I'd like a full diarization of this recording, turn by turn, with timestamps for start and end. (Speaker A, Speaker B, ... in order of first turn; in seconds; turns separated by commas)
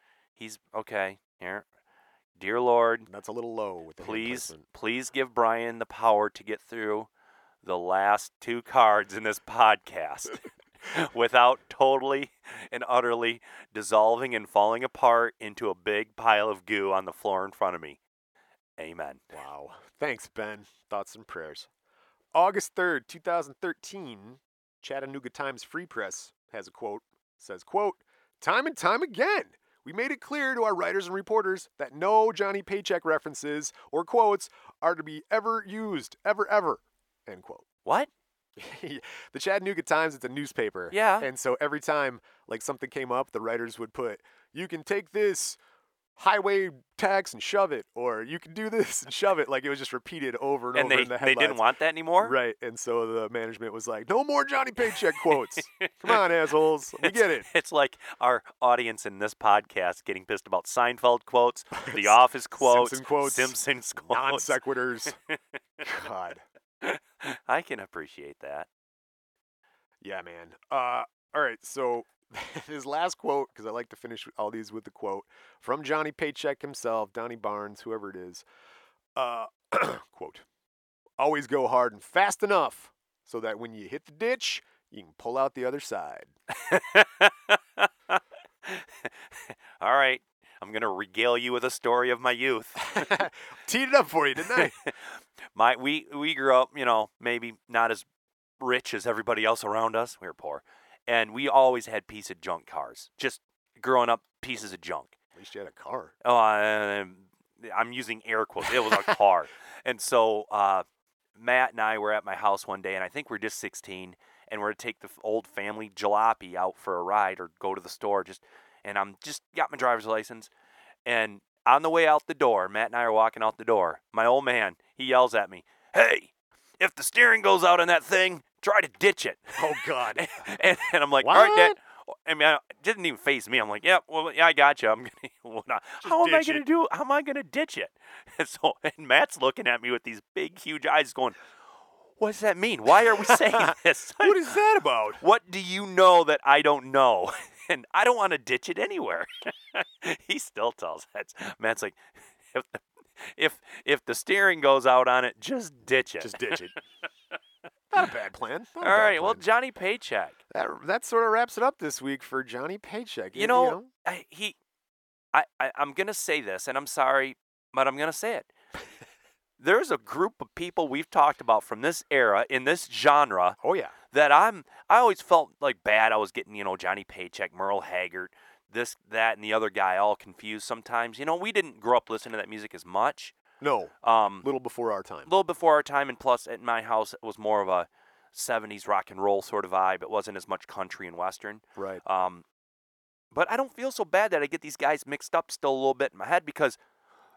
Speaker A: 0.4-1.7, Speaker A: 2.4-3.1, Speaker B: 3.1-4.6, Speaker A: 4.0-7.1, Speaker A: 7.6-18.0, Speaker A: 18.8-19.2, Speaker B: 19.3-21.7, Speaker B: 22.3-37.7, Speaker B: 38.6-45.6, Speaker A: 40.9-41.3, Speaker B: 46.2-51.6, Speaker A: 50.7-52.4, Speaker B: 52.2-57.5, Speaker A: 55.1-56.2, Speaker A: 57.0-64.6, Speaker B: 61.8-65.2, Speaker B: 65.8-66.4, Speaker A: 66.8-68.7, Speaker B: 70.0-78.5, Speaker B: 79.2-80.5, Speaker B: 81.2-86.3, Speaker A: 86.5-93.2, Speaker B: 92.8-94.8, Speaker A: 94.5-98.1, Speaker A: 98.6-105.1, Speaker B: 105.4-106.1, Speaker A: 106.2-110.8, Speaker A: 111.4-120.5, Speaker A: 121.1-141.4, Speaker B: 129.6-130.5, Speaker B: 131.2-131.8, Speaker B: 136.0-136.6, Speaker A: 142.2-144.5, Speaker B: 143.1-145.2, Speaker A: 145.2-156.7, Speaker B: 156.2-156.8, Speaker B: 157.9-159.5, Speaker A: 158.8-160.4, Speaker B: 160.5-163.9, Speaker A: 163.3-164.6, Speaker A: 165.3-168.5, Speaker A: 169.6-173.6, Speaker B: 173.6-173.9, Speaker A: 174.1-183.3, Speaker B: 183.6-185.3, Speaker A: 184.0-184.5, Speaker A: 185.3-192.4, Speaker B: 191.8-192.0, Speaker A: 193.3-196.8